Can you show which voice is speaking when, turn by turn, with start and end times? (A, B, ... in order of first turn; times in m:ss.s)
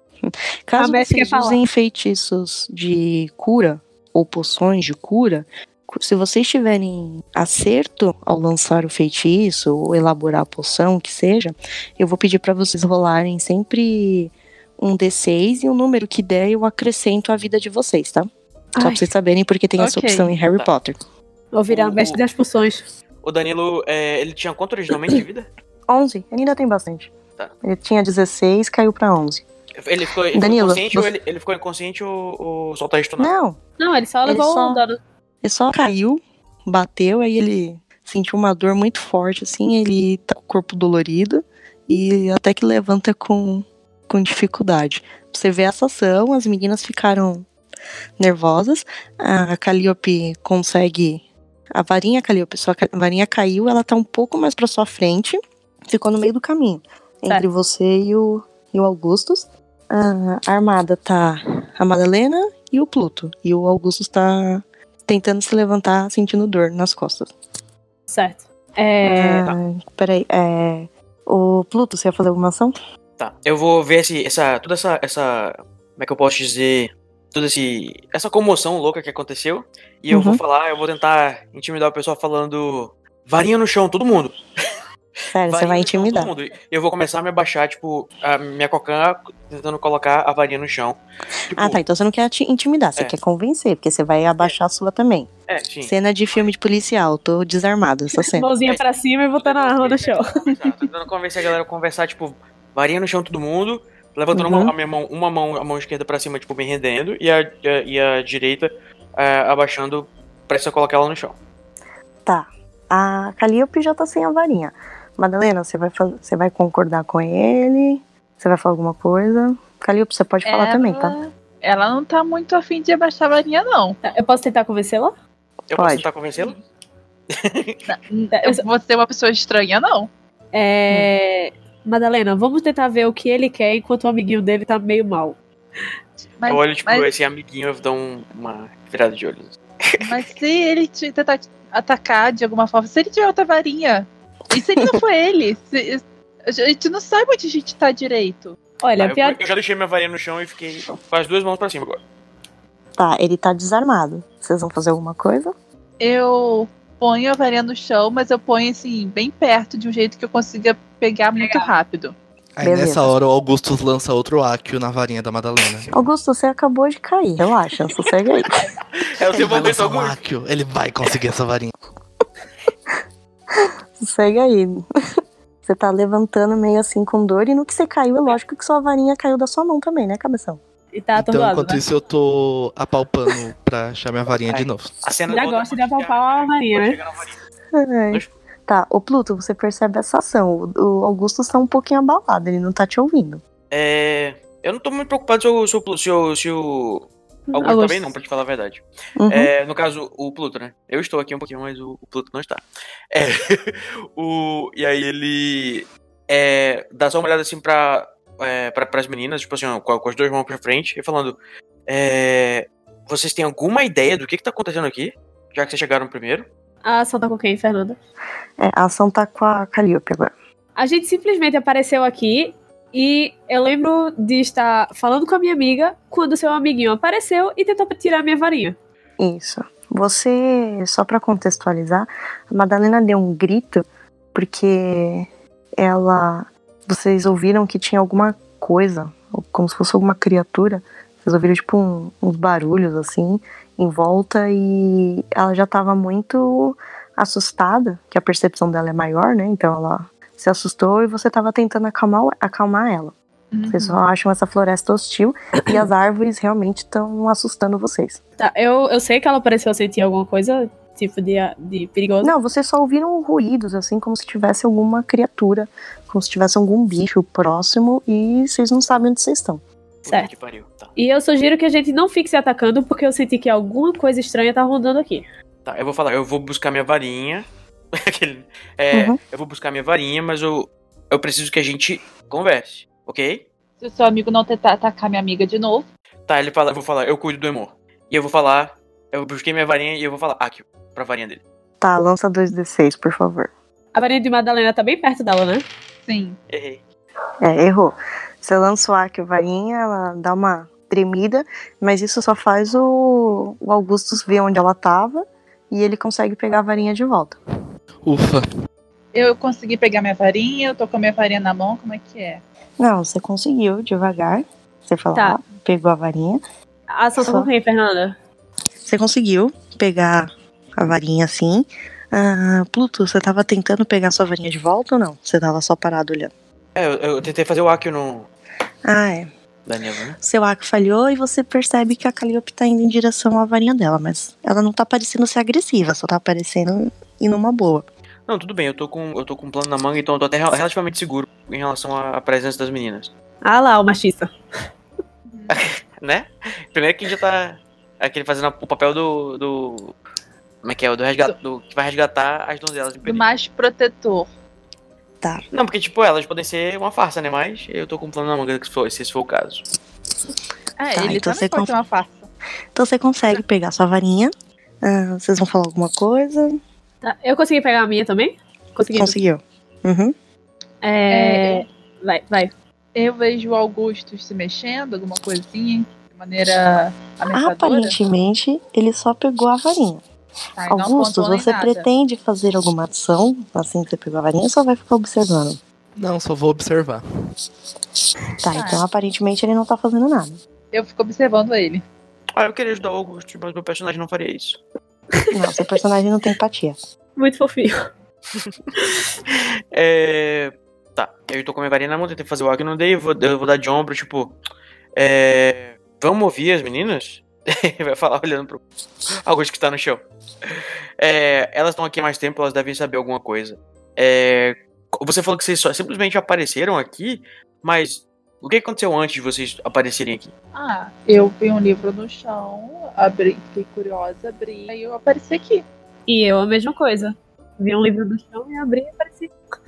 0:00.2-0:21.0 A
0:00.8-0:01.6 B
0:18.8-0:19.1 B
0:19.8-0:20.3 C
0:21.5-0:22.8 B
0:21.7-0:22.2 D
0:23.2-0:25.5 D
0:25.9-0:29.4 A
0:29.8-0:33.3 D
0:30.3-0:31.1 A
0:33.2-0:33.6 A
0:33.8-0:35.0 B
0:34.2-0:34.8 A
0:35.4-0:47.4 A
0:48.2-1:07.3 A
1:08.1-1:09.5 B
1:09.0-1:12.7 A
1:13.2-1:24.4 D
1:20.1-1:20.4 A
1:25.3-1:26.3 A
1:25.5-1:31.8 D
1:31.5-1:35.3 A
1:35.5-1:36.4 D
1:35.8-1:38.4 A
1:38.2-1:40.4 B
1:39.3-1:51.4 D
1:44.3-1:44.7 A
1:52.2-2:01.2 A
2:00.4-2:04.0 C
2:04.0-2:05.1 B
2:05.7-2:06.6 D
2:05.7-2:06.0 A
2:07.3-2:07.8 D
2:07.9-2:10.1 C
2:08.3-2:08.6 B
2:10.5-2:15.4 B
2:16.4-2:17.1 C
2:16.5-2:20.1 D
2:20.0-2:28.5 C
2:28.8-2:29.4 B
2:29.0-2:32.0 D
2:33.0-2:35.5 A
2:36.0-2:42.1 C
2:41.4-2:41.7 B
2:42.6-2:45.9 E
2:42.6-2:43.2 A
2:45.9-2:48.5 A
2:48.9-2:50.1 D
2:49.4-2:51.7 E
2:53.5-2:54.8 A
2:55.7-3:00.6 A
3:00.9-3:01.8 B
3:01.2-3:04.9 E
3:04.5-3:07.4 D
3:05.3-3:07.0 B
3:07.7-3:13.4 A
3:13.7-3:36.5 D
3:17.5-3:18.1 B
3:19.2-3:19.5 A
3:36.8-3:38.0 B
3:38.6-3:40.3 A
3:40.8-3:48.8 B
3:49.2-4:13.1 A
4:13.5-4:14.0 C
4:13.7-4:18.2 A
4:18.4-4:22.3 B
4:22.2-4:29.6 A
4:30.0-4:30.9 D
4:31.0-4:35.2 B
4:35.6-4:43.5 D
4:38.9-4:39.2 A
4:43.8-4:45.9 C
4:46.3-4:51.4 D
4:51.8-4:53.5 A
4:53.9-4:55.6 B
4:56.0-4:56.4 C
4:56.5-4:56.8 D
4:57.4-5:07.4 A
5:08.0-5:08.4 E
5:09.1-5:12.4 C
5:12.8-5:16.4 A
5:15.1-5:15.4 B
5:16.9-5:18.2 B
5:17.2-5:17.5 A
5:18.8-5:26.3 A
5:26.7-5:28.3 D
5:28.8-5:29.3 A
5:29.6-5:30.2 D
5:30.2-5:37.9 A
5:38.3-5:43.1 D
5:43.4-5:44.3 B
5:45.3-5:45.6 C
5:45.5-5:50.0 D
5:50.6-5:53.3 D
5:53.0-5:54.3 C
5:55.5-5:59.6 D
6:00.8-6:02.3 C
6:00.9-6:01.7 A
6:02.7-6:04.3 A
6:04.8-6:06.6 A
6:07.0-6:09.2 B
6:08.9-6:10.1 A
6:10.8-6:12.5 B
6:11.1-6:11.6 C
6:12.9-6:18.0 C
6:17.3-6:20.0 A
6:20.6-6:21.9 C
6:20.7-6:25.6 A
6:26.0-6:27.0 E
6:28.4-6:30.4 A
6:28.5-6:28.8 C
6:30.7-6:31.8 C
6:32.4-6:34.6 D
6:35.1-6:35.6 B
6:35.3-6:36.8 A
6:37.2-6:37.9 B
6:38.3-6:38.7 D
6:38.8-6:39.1 B
6:39.3-6:44.4 D
6:45.0-6:48.6 D
6:49.2-7:00.3 D
7:00.5-7:05.6 C
7:06.1-7:09.3 B